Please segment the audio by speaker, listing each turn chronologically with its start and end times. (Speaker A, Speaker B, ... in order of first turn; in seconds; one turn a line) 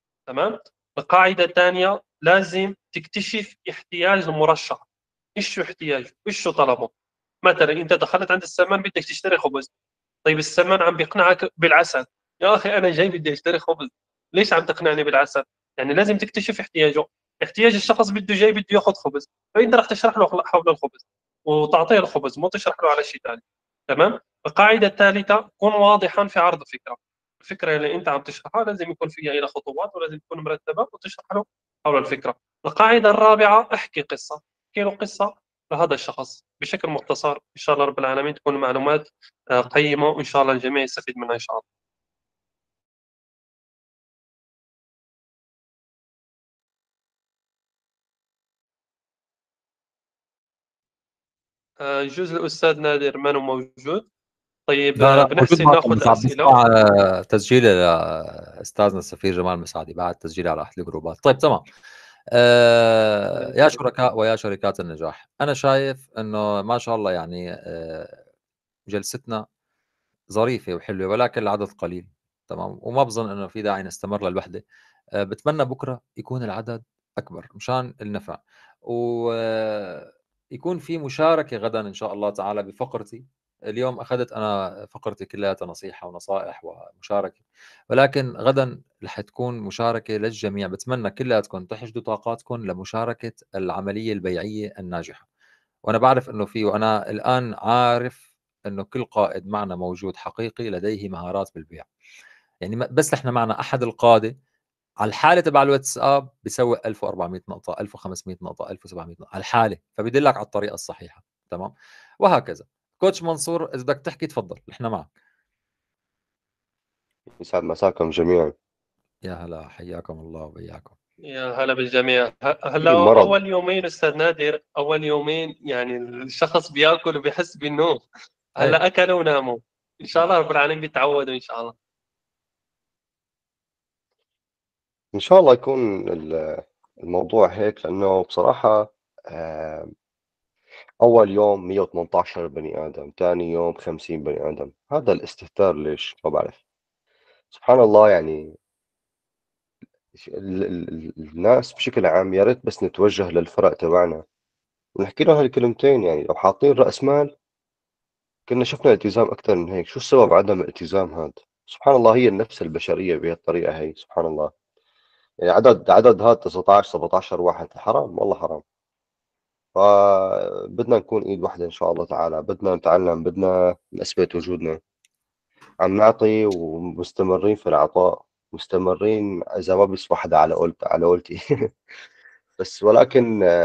Speaker A: 0.3-4.8
Speaker A: 5.4-6.9
Speaker A: 7.4-9.7
Speaker A: 10.2-41.6
Speaker A: 51.8-54.0
Speaker A: 54.7-56.6
Speaker B: 55.0-61.6
Speaker B: 62.4-68.2
Speaker B: 68.9-69.4
Speaker B: 70.3-74.6
Speaker B: 75.2-95.2
Speaker B: 95.8-101.9
Speaker B: 102.6-104.3
Speaker B: 105.0-111.7
Speaker B: 112.2-115.1
Speaker C: 117.4-118.5
Speaker B: 119.2-120.9
Speaker A: 121.3-128.0
Speaker C: 122.8-123.3
Speaker A: 128.6-131.7
Speaker C: 135.1-139.9
Speaker C: 141.0-146.6
Speaker C: 147.5-148.4
Speaker C: 150.2-154.2
Speaker C: 155.0-157.3
Speaker C: 158.5-164.5
Speaker C: 165.5-168.6
Speaker C: 169.8-174.8
Speaker C: 175.8-181.3
Speaker C: 182.6-183.3